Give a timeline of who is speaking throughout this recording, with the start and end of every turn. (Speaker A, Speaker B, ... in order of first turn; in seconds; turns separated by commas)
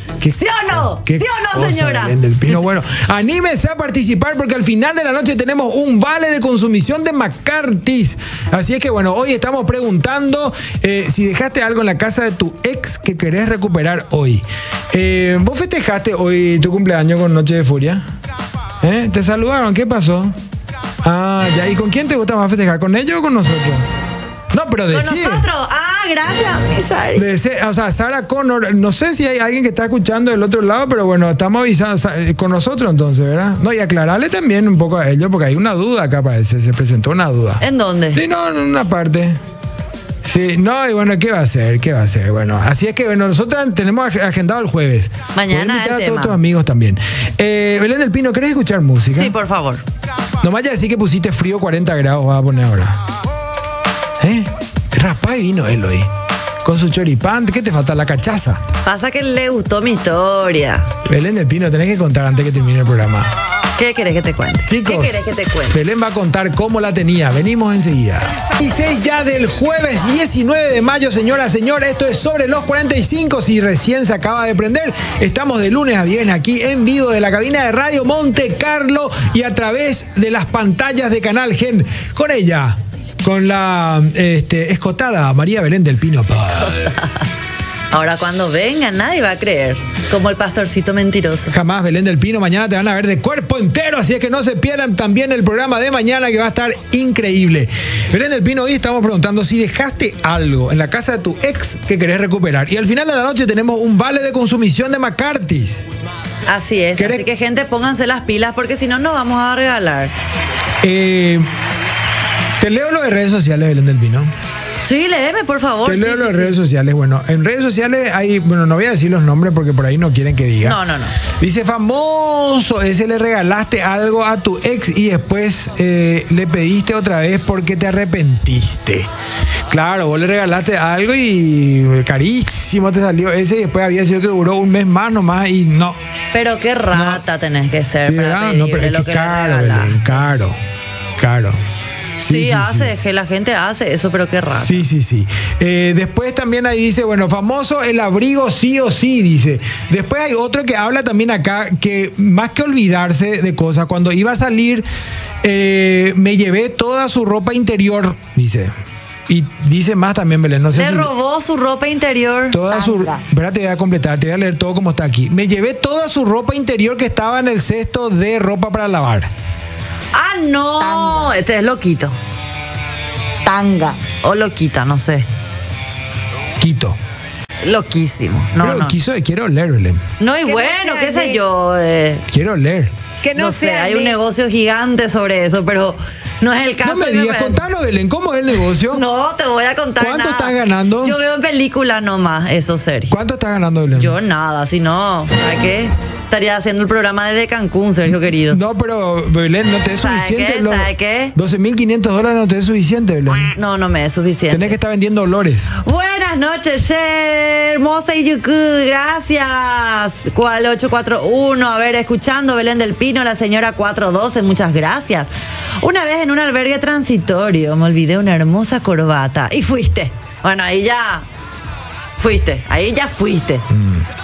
Speaker A: 0.2-18.0, Speaker B: 0.4-2.2, Speaker A: 18.8-20.4, Speaker A: 21.0-23.9, Speaker A: 24.5-25.5, Speaker B: 24.9-27.3, Speaker A: 27.1-39.4, Speaker B: 37.6-38.2, Speaker A: 40.2-49.4, Speaker B: 45.3-46.4, Speaker B: 49.1-49.8, Speaker A: 50.4-53.0, Speaker A: 54.2-56.1, Speaker A: 56.6-58.6, Speaker B: 58.8-60.9, Speaker A: 61.0-63.3, Speaker B: 63.8-65.8, Speaker A: 64.7-86.9, Speaker B: 86.7-87.2, Speaker B: 87.9-91.5, Speaker A: 91.5-105.9, Speaker B: 106.5-110.1, Speaker A: 107.0-107.2, Speaker A: 110.8-111.5, Speaker A: 112.6-114.3, Speaker B: 114.8-116.6, Speaker A: 115.8-129.1, Speaker B: 120.6-121.2, Speaker A: 129.7-136.0, Speaker B: 136.3-140.2, Speaker A: 136.9-137.2, Speaker A: 138.0-140.6, Speaker A: 141.2-141.6, Speaker B: 142.2-144.9, Speaker A: 142.2-142.9, Speaker A: 144.5-154.9, Speaker A: 155.4-158.7, Speaker A: 159.3-161.1, Speaker B: 160.7-163.1, Speaker A: 162.5-169.3, Speaker B: 170.1-172.1, Speaker C: 170.8-171.3, Speaker C: 173.4-174.0, Speaker B: 174.0-175.3, Speaker A: 176.6-177.0, Speaker B: 177.6-179.0, Speaker A: 178.6-180.0, Speaker B: 180.2-182.2, Speaker C: 180.4-181.4, Speaker A: 182.3-182.9, Speaker C: 183.2-184.1, Speaker B: 183.3-187.6, Speaker A: 186.8-189.1, Speaker B: 188.8-193.2, Speaker A: 190.0-191.2, Speaker A: 193.1-194.2, Speaker B: 193.9-198.6, Speaker A: 198.5-203.5, Speaker B: 200.0-201.4, Speaker B: 203.6-204.7, Speaker A: 204.5-205.7, Speaker B: 205.7-221.3, Speaker B: 222.2-223.7, Speaker A: 223.7-224.1